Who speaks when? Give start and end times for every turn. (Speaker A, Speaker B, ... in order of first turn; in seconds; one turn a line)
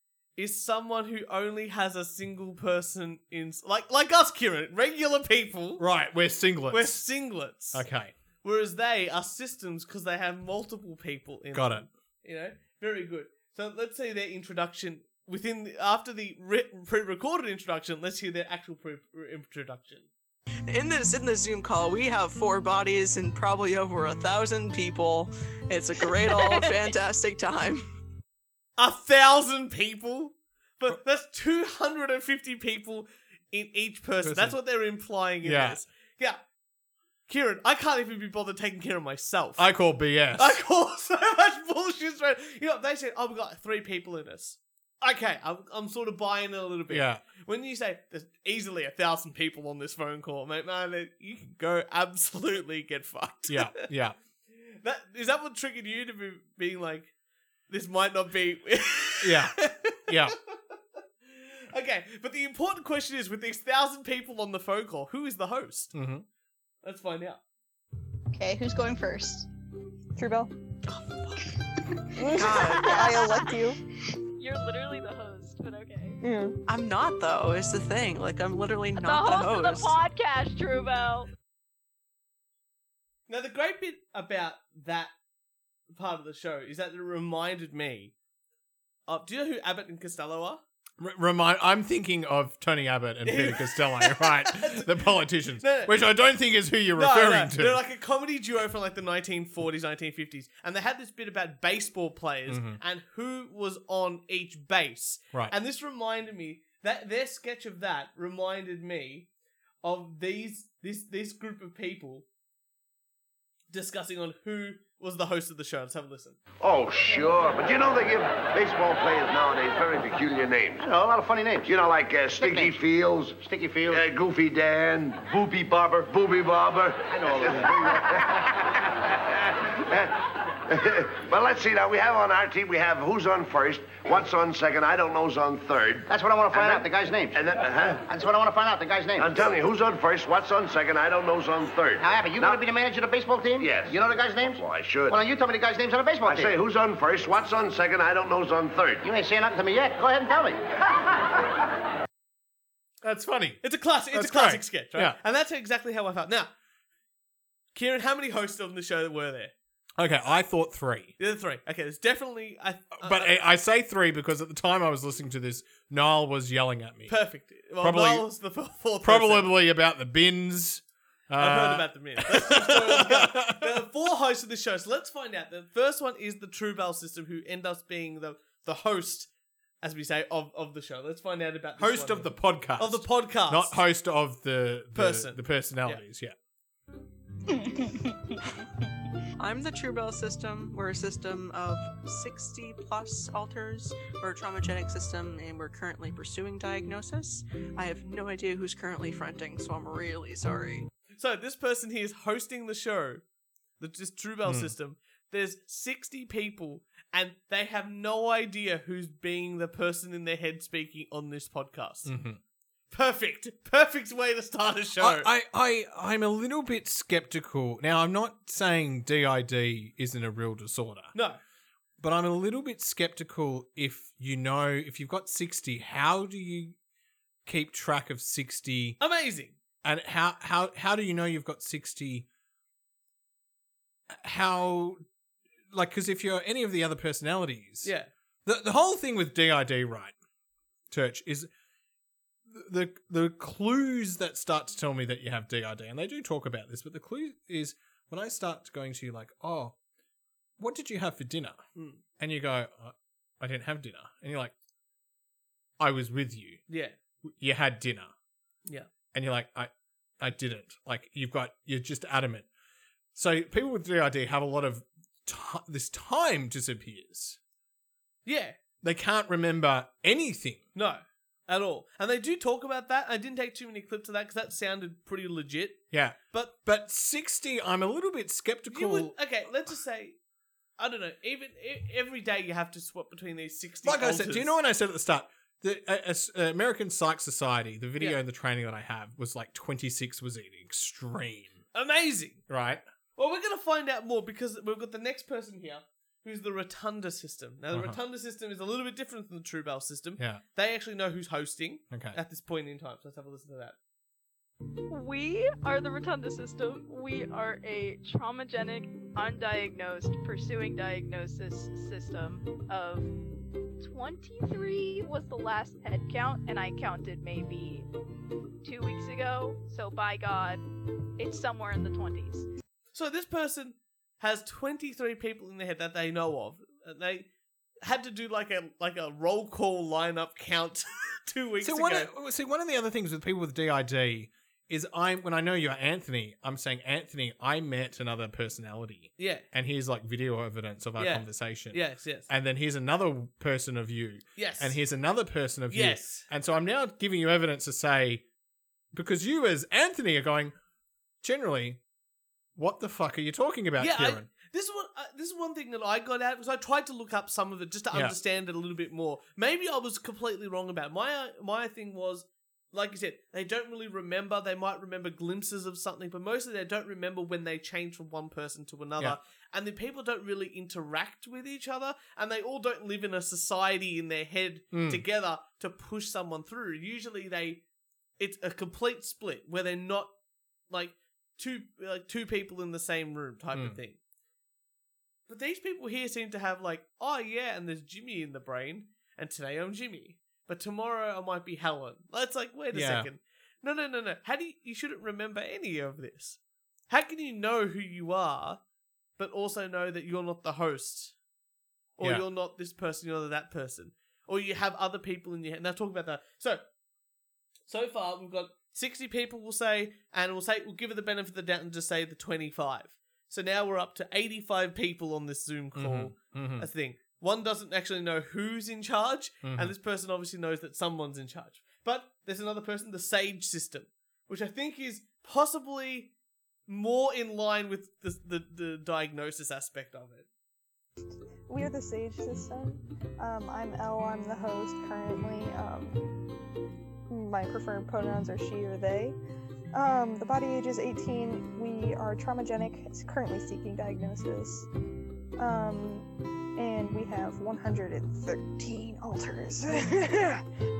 Speaker A: 0.3-5.8
Speaker B: 5.8-7.0
Speaker A: 6.7-7.8
Speaker B: 7.7-8.1
Speaker A: 8.4-20.1
Speaker B: 11.5-11.9
Speaker C: 20.7-27.8
Speaker A: 28.8-36.4
Speaker B: 34.2-34.6
Speaker B: 35.4-35.8
Speaker A: 37.3-39.7
Speaker B: 39.6-40.6
Speaker A: 40.4-53.8
Speaker B: 46.9-47.2
Speaker B: 53.5-54.1
Speaker A: 54.5-57.1
Speaker A: 57.7-65.9
Speaker B: 59.2-60.4
Speaker B: 65.9-66.2
Speaker A: 66.8-67.4
Speaker D: 68.3-69.5
Speaker E: 70.2-70.5
Speaker C: 70.8-71.5
Speaker E: 72.2-73.8
Speaker D: 72.3-73.1
Speaker C: 72.3-73.5
Speaker F: 72.5-73.3
Speaker F: 74.4-76.2
Speaker E: 76.2-76.6
Speaker C: 76.7-80.0
Speaker F: 79.0-81.3
Speaker A: 83.3-85.1
Speaker A: 85.9-88.1
Speaker A: 89.1-90.6
Speaker B: 91.0-97.8
Speaker A: 93.2-95.9
Speaker A: 96.9-109.3
Speaker B: 102.5-102.8
Speaker A: 109.8-112.2
Speaker A: 113.7-116.4
Speaker G: 116.6-120.9
Speaker H: 120.8-121.7
Speaker G: 121.6-128.5
Speaker H: 122.4-122.8
Speaker H: 123.4-124.0
Speaker H: 127.3-127.7
Speaker G: 129.8-130.1
Speaker G: 130.7-138.1
Speaker H: 136.1-137.5
Speaker H: 138.1-139.5
Speaker G: 139.2-142.6
Speaker H: 142.0-146.6
Speaker G: 143.6-145.2
Speaker G: 146.2-149.0
Speaker H: 149.0-150.6
Speaker B: 153.0-155.2
Speaker A: 153.6-156.5
Speaker A: 157.7-159.5
Speaker B: 160.0-161.1
Speaker A: 161.2-163.3
Speaker B: 163.0-167.2
Speaker A: 167.1-169.5
Speaker B: 167.8-168.3
Speaker B: 169.0-173.7
Speaker A: 171.4-179.3
Speaker A: 179.8-183.8
Speaker B: 181.8-186.3
Speaker A: 184.9-186.0
Speaker D: 187.5-188.4
Speaker C: 189.4-200.9
Speaker A: 201.2-203.2
Speaker A: 203.8-212.1
Speaker B: 204.4-204.7
Speaker B: 212.0-212.4
Speaker A: 212.9-215.3
Speaker B: 215.0-221.1
Speaker A: 221.1-221.4
Speaker B: 222.0-226.8
Speaker B: 227.4-229.0
Speaker A: 229.0-229.6
Speaker B: 229.8-232.3
Speaker B: 234.1-235.0
Speaker B: 235.7-237.9
Speaker A: 237.8-238.1
Speaker B: 238.4-240.1
Speaker B: 240.9-241.5
Speaker B: 242.5-249.8
Speaker B: 250.6-251.6
Speaker A: 251.7-252.0
Speaker B: 252.2-254.5
Speaker B: 255.8-256.6
Speaker A: 256.7-256.9
Speaker B: 257.2-258.1
Speaker B: 259.1-262.5
Speaker B: 263.1-267.4
Speaker A: 268.2-268.6
Speaker B: 268.8-270.6
Speaker A: 270.7-276.6
Speaker B: 275.9-279.1
Speaker A: 278.7-280.2
Speaker A: 280.8-284.5
Speaker B: 283.8-291.6
Speaker A: 291.7-292.4
Speaker B: 292.5-292.8
Speaker A: 293.1-303.8
Speaker B: 297.7-298.0
Speaker B: 301.9-302.2
Speaker F: 304.9-313.1
Speaker F: 313.8-317.9
Speaker F: 318.6-320.6
Speaker F: 321.2-322.5
Speaker A: 322.9-327.3
Speaker A: 327.8-332.1
Speaker B: 331.6-348.2
Speaker A: 339.2-339.5
Speaker A: 341.0-342.3
Speaker A: 344.4-344.8
Speaker A: 345.7-346.2
Speaker B: 348.9-350.5
Speaker B: 351.2-351.8
Speaker B: 352.6-354.3
Speaker A: 353.8-377.6
Speaker B: 374.7-375.0
Speaker A: 378.2-380.1
Speaker A: 380.7-384.0
Speaker B: 383.5-383.8
Speaker A: 385.3-398.6
Speaker B: 392.7-393.1
Speaker A: 399.2-401.2
Speaker A: 402.0-406.6
Speaker A: 407.7-426.1
Speaker B: 415.8-416.7
Speaker B: 419.4-419.7
Speaker A: 426.7-430.3
Speaker E: 431.5-436.1
Speaker E: 437.1-439.2
Speaker E: 439.7-444.7
Speaker E: 445.4-450.4